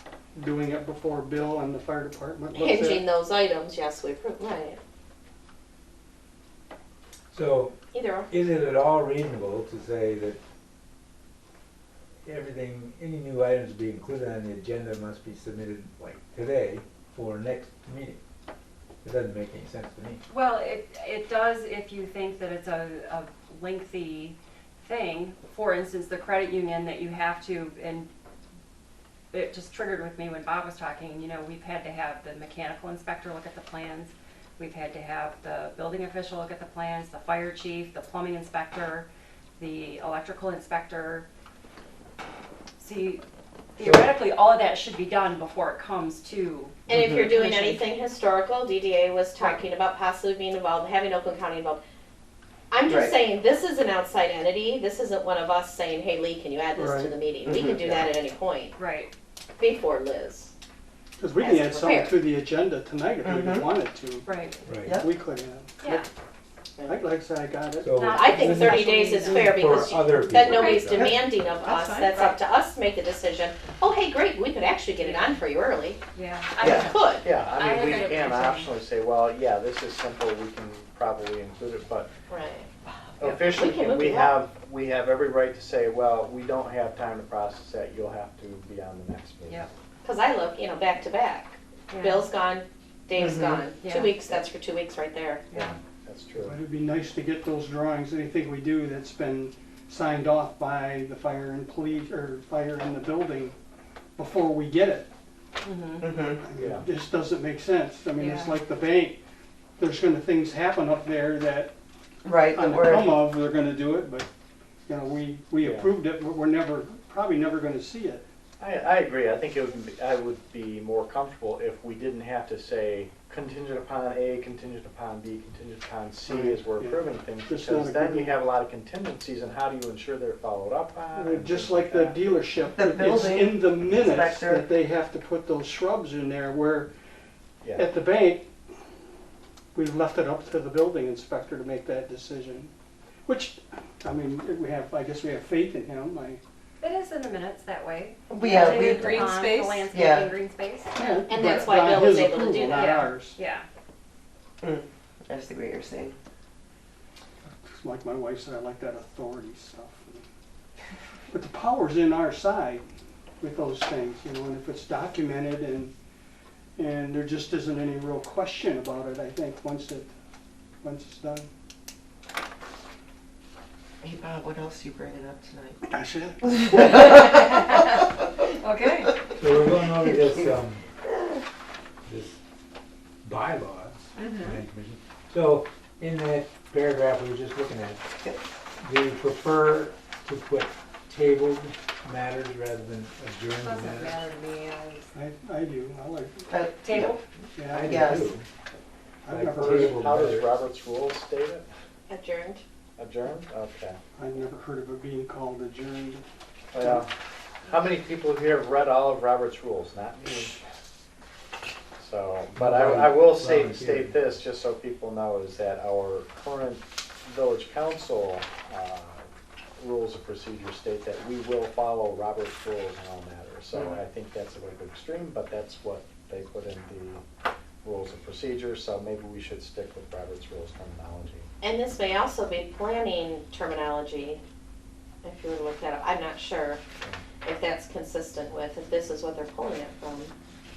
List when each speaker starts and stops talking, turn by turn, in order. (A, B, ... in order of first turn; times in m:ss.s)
0:00.3-0:03.0 A
0:02.5-0:04.8 B
0:07.3-0:07.7 C
0:07.9-0:08.3 B
0:08.3-0:10.4 C
0:12.2-0:18.2 C
0:19.0-0:20.2 C
0:20.3-0:28.1 D
0:29.3-0:39.1 D
0:39.6-0:41.3 D
0:42.8-0:43.2 D
0:43.8-0:47.9 D
0:46.9-0:51.8 B
0:46.9-0:47.3 E
0:49.4-0:49.6 D
0:52.7-0:58.8 B
0:52.8-0:53.2 E
0:56.8-0:57.1 A
0:57.4-0:58.1 E
0:58.8-0:59.1 D
0:59.6-1:00.5 B
1:01.2-1:04.3 A
1:01.4-1:02.2 B
1:03.2-1:03.7 E
1:04.2-1:04.6 D
1:04.6-1:05.0 C
1:04.9-1:06.1 A
1:05.8-1:06.1 D
1:06.9-1:08.0 A
1:07.8-1:10.8 C
1:08.0-1:09.8 D
1:08.1-1:16.0 B
1:10.1-1:11.2 F
1:10.9-1:11.2 E
1:15.0-1:15.4 D
1:16.1-1:18.8 D
1:16.6-1:17.3 B
1:16.6-1:16.9 E
1:17.2-1:22.1 F
1:22.3-1:22.7 B
1:23.2-1:29.7 F
1:23.2-1:23.5 D
1:23.5-1:24.4 B
1:30.0-1:35.5 B
1:31.9-1:32.2 D
1:33.2-1:33.6 E
1:33.8-1:34.2 D
1:35.5-1:35.8 D
1:35.5-1:36.6 F
1:36.4-1:43.6 A
1:44.2-1:45.1 A
1:45.6-1:46.0 D
1:46.0-1:46.4 E
1:46.3-1:49.2 A
1:46.5-1:46.8 F
1:48.2-1:48.6 D
1:49.8-1:51.7 A
1:52.2-1:53.2 E
1:52.5-1:54.3 A
1:54.9-1:58.2 A
1:55.6-1:55.9 F
1:58.6-2:12.8 F
2:06.3-2:08.4 A
2:11.1-2:16.9 A
2:12.7-2:14.6 E
2:17.6-2:17.9 F
2:17.7-2:18.5 A
2:19.7-2:22.7 A
2:23.3-2:26.4 A
2:26.8-2:31.0 D
2:28.3-2:29.3 E
2:29.9-2:30.3 E
2:30.9-2:33.3 A
2:31.2-2:32.9 B
2:32.7-2:33.6 D
2:34.6-2:36.2 E
2:37.6-2:40.2 A
2:41.3-2:42.8 A
2:43.4-2:45.9 A
2:46.8-2:50.1 A
2:50.8-2:51.5 A
2:54.0-2:55.8 E
2:55.9-2:56.4 A
2:56.7-2:57.2 E
2:56.9-2:57.9 D
2:58.6-2:59.1 D
2:59.4-3:00.8 C
2:59.6-3:00.6 E
3:02.1-3:02.4 C
3:03.2-3:08.0 C
3:08.8-3:14.2 C
3:13.6-3:15.1 D
3:15.1-3:16.5 A
3:16.5-3:17.2 E
3:16.8-3:17.2 D
3:17.6-3:18.3 A
3:17.6-3:18.4 C
3:17.8-3:18.3 E
3:19.2-3:20.0 A
3:19.3-3:20.5 C
3:19.6-3:21.7 F
3:22.1-3:22.6 B
3:23.0-3:24.0 F
3:24.2-3:26.2 A
3:26.7-3:27.1 F
3:27.6-3:30.6 F
3:32.0-3:39.2 F
3:32.5-3:34.2 C
3:39.8-3:47.2 F
3:47.8-3:51.5 F
3:51.6-3:54.4 B
3:55.2-3:56.8 B
3:57.4-4:00.3 B